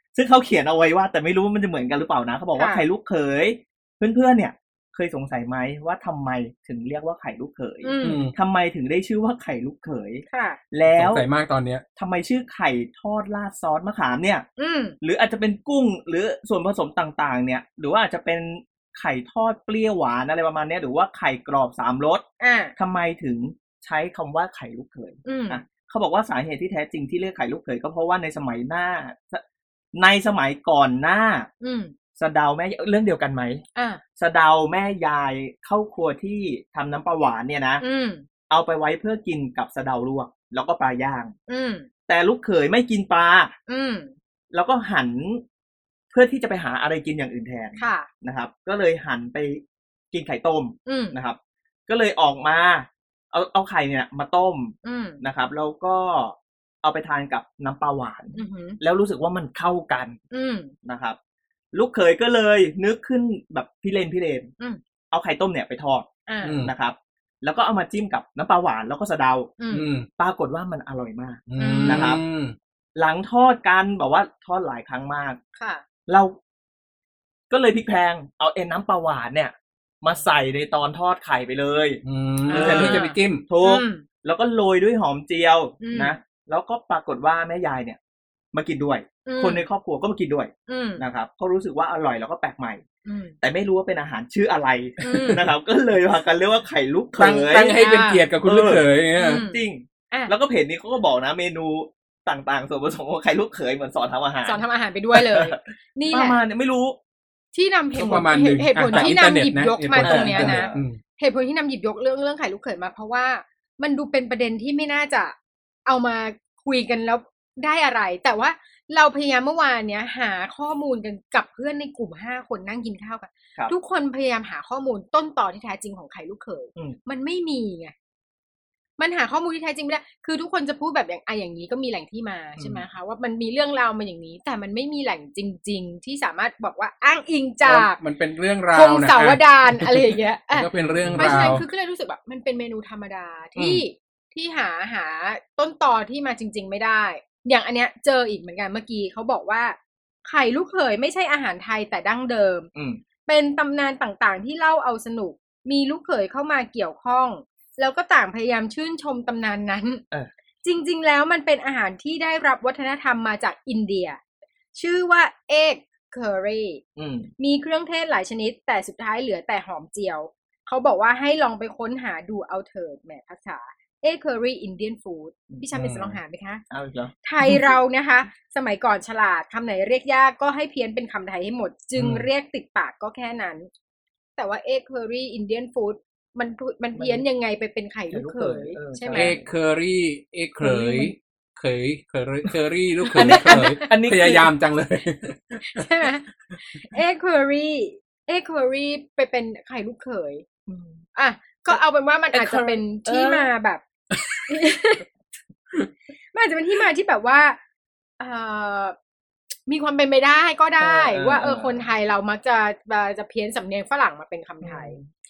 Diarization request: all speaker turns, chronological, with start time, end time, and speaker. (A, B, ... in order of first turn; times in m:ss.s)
0:00.2-0:11.3 A
0:02.6-0:02.8 B
0:07.8-0:08.3 B
0:08.0-0:08.3 C
0:10.3-0:10.6 B
0:10.9-0:11.8 C
0:12.0-0:14.5 A
0:14.6-0:15.0 B
0:15.0-0:22.2 A
0:22.4-0:22.7 B
0:22.8-0:29.4 A
0:25.2-0:25.6 B
0:29.9-0:31.5 A
0:31.6-0:31.9 B
0:32.2-0:33.6 A
0:33.8-0:34.0 B
0:34.2-0:37.8 A
0:37.8-0:38.2 B
0:38.5-0:41.3 A
0:41.5-0:41.9 B
0:42.1-0:43.5 A
0:43.7-0:44.1 B
0:44.5-0:45.4 A
0:46.1-1:00.2 A
0:47.8-0:48.1 B
0:50.9-0:51.2 B
0:54.8-0:55.2 B
0:58.4-0:58.8 B
1:00.3-1:00.7 B
1:00.8-1:01.2 A
1:01.7-1:04.5 A
1:05.1-1:09.5 A
1:06.3-1:06.6 B
1:06.4-1:06.7 C
1:09.6-1:09.9 B
1:09.7-1:10.1 C
1:10.2-1:12.2 A
1:11.5-1:12.6 C
1:11.6-1:12.2 B
1:13.0-1:15.4 A
1:15.6-1:15.8 B
1:16.1-1:16.4 A
1:17.5-1:28.0 A
1:22.0-1:23.4 C
1:22.5-1:24.0 B
1:25.8-1:26.2 B
1:28.5-1:32.8 A
1:29.3-1:29.7 B
1:30.7-1:31.0 B
1:33.0-1:33.4 B
1:33.4-1:37.8 A
1:35.0-1:35.5 B
1:35.1-1:35.4 C
1:37.2-1:39.5 C
1:37.7-1:38.3 B
1:38.4-1:38.9 A
1:39.2-1:40.3 B
1:39.5-1:44.6 A
1:44.4-1:46.4 B
1:45.1-1:47.0 A
1:47.5-2:07.9 B
1:48.0-1:48.3 A
1:48.0-1:51.0 C
1:48.9-1:49.2 A
1:50.0-1:50.9 A
2:09.0-2:18.0 B
2:12.6-2:12.8 A
2:17.6-2:21.6 C
2:18.7-2:32.7 B
2:20.8-2:21.7 A
2:23.6-2:23.8 A
2:32.8-2:33.0 A
2:33.3-2:40.0 B
2:40.6-2:44.2 B
2:44.7-2:46.8 B
2:47.0-2:47.3 A
2:47.4-2:56.6 B
2:55.5-2:56.2 A
2:56.7-2:57.5 A
2:57.2-3:03.7 B
3:02.0-3:02.3 C
3:04.4-3:09.4 B
3:07.0-3:07.2 A
3:08.1-3:09.4 A
3:09.1-3:15.8 C
3:10.6-3:11.1 A
3:13.1-3:14.5 A
3:13.2-3:13.8 B
3:15.6-3:20.5 B
3:20.7-3:21.0 A
3:21.1-3:23.8 B
3:22.3-3:23.5 A
3:24.2-3:24.6 C
3:24.5-3:25.0 B
3:26.3-3:27.6 B
3:28.2-3:29.0 B
3:29.7-3:35.0 B
3:30.8-3:31.9 A
3:34.6-3:35.0 A